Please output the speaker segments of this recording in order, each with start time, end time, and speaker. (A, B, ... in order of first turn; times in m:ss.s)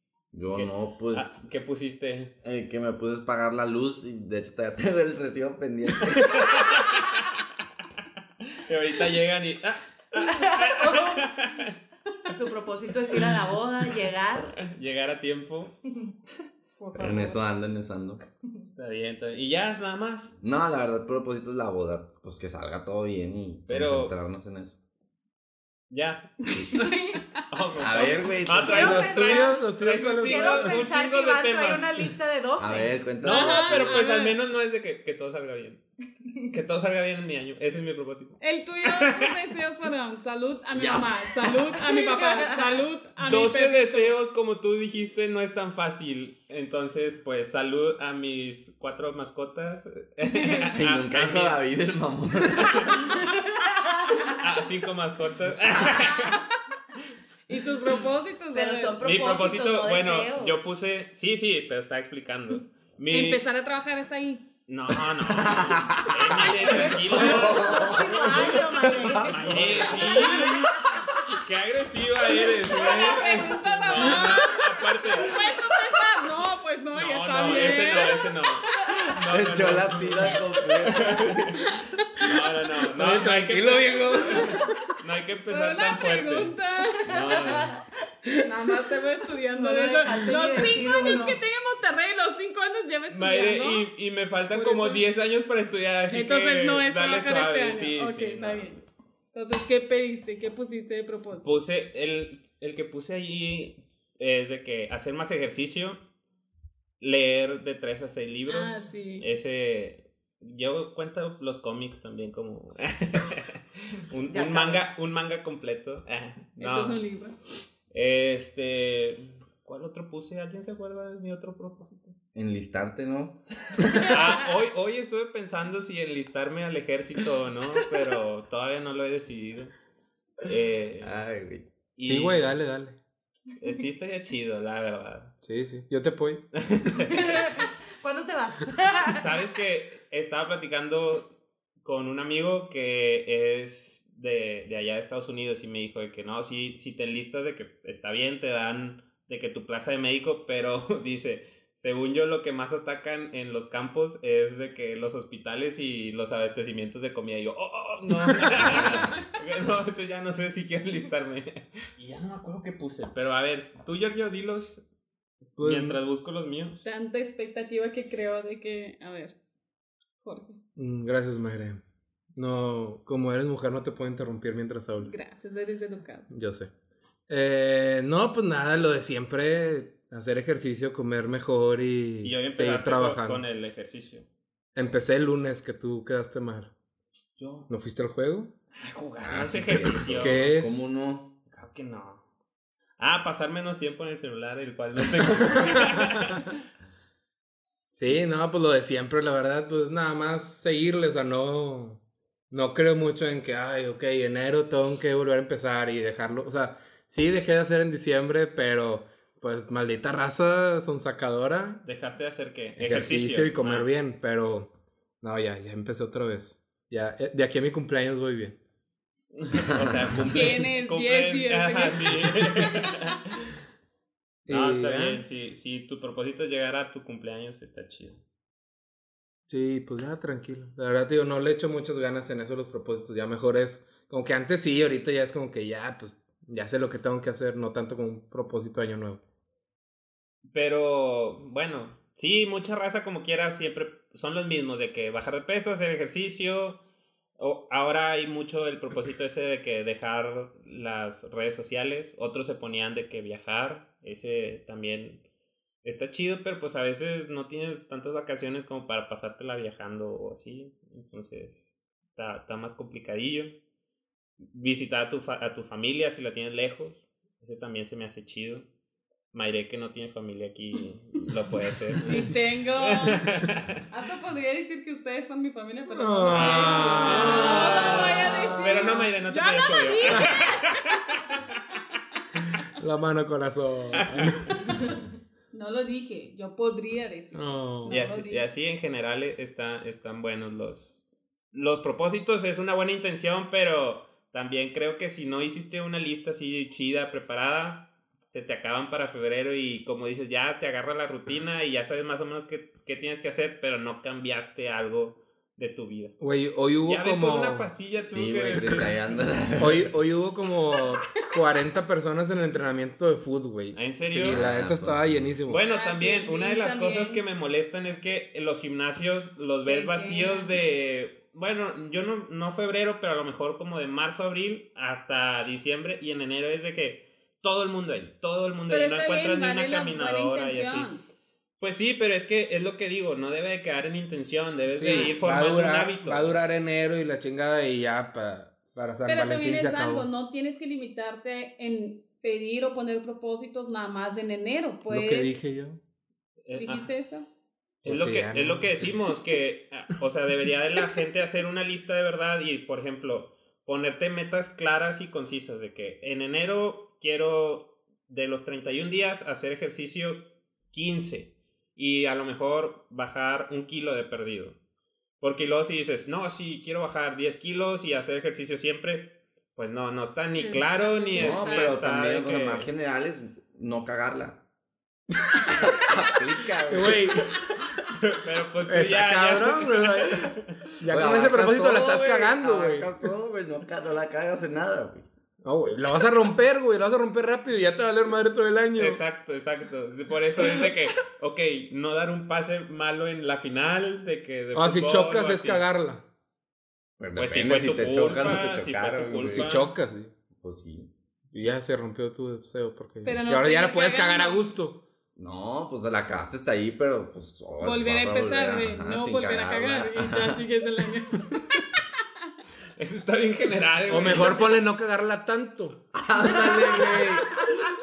0:00.3-0:01.5 A
0:00.5-0:02.3 B
0:02.4-0:06.5 A
0:06.1-0:07.3 B
0:08.5-0:11.8 B
0:10.1-0:11.6 C
0:12.3-0:14.6 C
0:14.6-0:15.7 B
0:16.8-0:17.4 D
0:17.0-0:18.2 A
0:18.8-0:20.4 B
0:20.4-0:24.8 A
0:23.7-0:24.1 B
0:25.9-0:26.5 B
0:26.7-0:27.4 D
0:26.8-0:27.2 C
0:27.5-0:32.1 B
0:27.8-0:29.1 A
0:28.0-0:33.1 C
0:28.8-0:30.8 E
0:32.6-0:34.1 A
0:33.2-0:35.8 B
0:33.2-0:34.4 D
0:36.5-0:39.4 B
0:38.4-0:44.1 D
0:40.7-0:41.8 A
0:41.9-0:42.8 C
0:43.2-0:51.6 B
0:50.7-0:53.1 A
0:52.6-0:53.1 B
0:53.6-0:54.4 C
0:54.3-0:56.4 B
0:57.5-0:59.0 D
0:58.5-1:00.8 C
0:59.0-1:03.4 B
1:03.1-1:04.5 D
1:04.7-1:08.0 B
1:05.3-1:10.6 A
1:06.4-1:09.5 D
1:06.7-1:10.7 C
1:09.2-1:10.7 B
1:11.3-1:15.5 B
1:12.6-1:18.3 D
1:16.9-1:21.6 B
1:17.5-1:18.2 C
1:18.9-1:21.6 A
1:20.5-1:21.0 D
1:21.6-1:21.8 D
1:22.2-1:27.7 B
1:22.9-1:24.8 E
1:25.5-1:27.1 D
1:27.1-1:27.9 C
1:28.4-1:33.9 D
1:29.5-1:31.4 C
1:33.1-1:38.8 B
1:34.6-1:35.0 E
1:36.1-1:38.8 D
1:39.3-1:41.5 D
1:41.4-1:46.0 B
1:47.0-1:57.0 B
1:48.5-1:49.3 D
1:54.3-1:54.9 C
1:56.6-1:57.4 D
1:57.9-2:02.2 B
2:02.3-2:04.1 A
2:04.0-2:09.7 B
2:10.4-2:11.2 B
2:11.0-2:11.7 A
2:12.0-2:12.5 B
2:12.0-2:13.0 E
2:13.6-2:15.3 B
2:15.4-2:16.4 E
2:16.6-2:17.6 B
2:17.0-2:19.3 C
2:19.1-2:44.8 B
2:45.6-2:46.0 E
2:45.6-2:46.9 B
2:46.8-2:49.4 D
2:50.2-2:50.6 D
2:50.8-2:51.8 E
2:52.4-2:55.1 E
2:55.0-2:56.3 D
2:56.3-2:56.7 E
2:57.3-3:03.4 E
3:02.2-3:04.3 B
3:04.8-3:06.7 E
3:07.4-3:07.7 B
3:07.7-3:08.5 E
3:08.8-3:10.4 B
3:09.2-3:11.3 A
3:10.1-3:10.8 E
3:11.5-3:12.2 B
3:13.0-3:16.6 B
3:15.6-3:16.0 E
3:18.0-3:31.8 E
3:31.8-3:33.9 B
3:32.8-3:34.7 E
3:35.2-3:38.6 E
3:39.4-3:43.5 B
3:40.2-3:42.9 D
3:44.5-3:45.2 E
3:44.5-3:48.2 B
3:49.5-3:59.2 E
4:00.5-4:06.8 B
4:07.4-4:15.2 B
4:15.8-4:23.5 B
4:24.4-4:28.7 B
4:29.3-4:33.7 B
4:32.0-4:33.2 D
4:33.9-4:41.0 D
4:35.9-4:38.1 E
4:36.3-4:41.0 B
4:42.8-4:44.8 E
4:44.0-4:44.4 B
4:45.5-4:48.5 D
4:47.3-4:48.0 E
4:47.9-5:06.2 B
5:06.2-5:07.7 E
5:06.8-5:08.9 B
5:08.0-5:09.9 A
5:09.6-5:15.6 E
5:13.7-5:14.4 B
5:14.1-5:15.4 A
5:15.5-5:30.9 B
5:15.7-5:17.2 D
5:19.6-5:20.6 D
5:28.7-5:31.0 D
5:31.6-5:36.3 B
5:34.7-5:40.1 E
5:34.9-5:35.2 D
5:39.0-5:45.5 D
5:44.9-5:45.8 E
5:46.5-5:46.9 B
5:46.6-5:47.3 D
5:47.8-5:48.9 E
5:47.8-6:04.6 B
6:05.2-6:12.7 B
6:10.4-6:11.8 D
6:11.1-6:14.4 A
6:15.2-6:16.1 E
6:15.6-6:17.4 A
6:16.7-6:17.3 E
6:18.0-6:20.6 B
6:18.6-6:22.9 E
6:20.9-6:25.1 A
6:25.4-6:29.0 E
6:28.8-6:35.6 B
6:34.5-6:36.0 E
6:37.0-6:39.5 A
6:37.2-6:39.7 B
6:39.3-6:40.1 E
6:40.3-6:40.9 A
6:41.3-6:44.8 E
6:43.0-6:44.5 D
6:45.2-6:50.5 A
6:47.6-6:51.8 D
6:52.8-6:54.5 B
6:53.9-6:57.0 E
6:55.9-6:57.3 A
6:56.4-6:57.0 C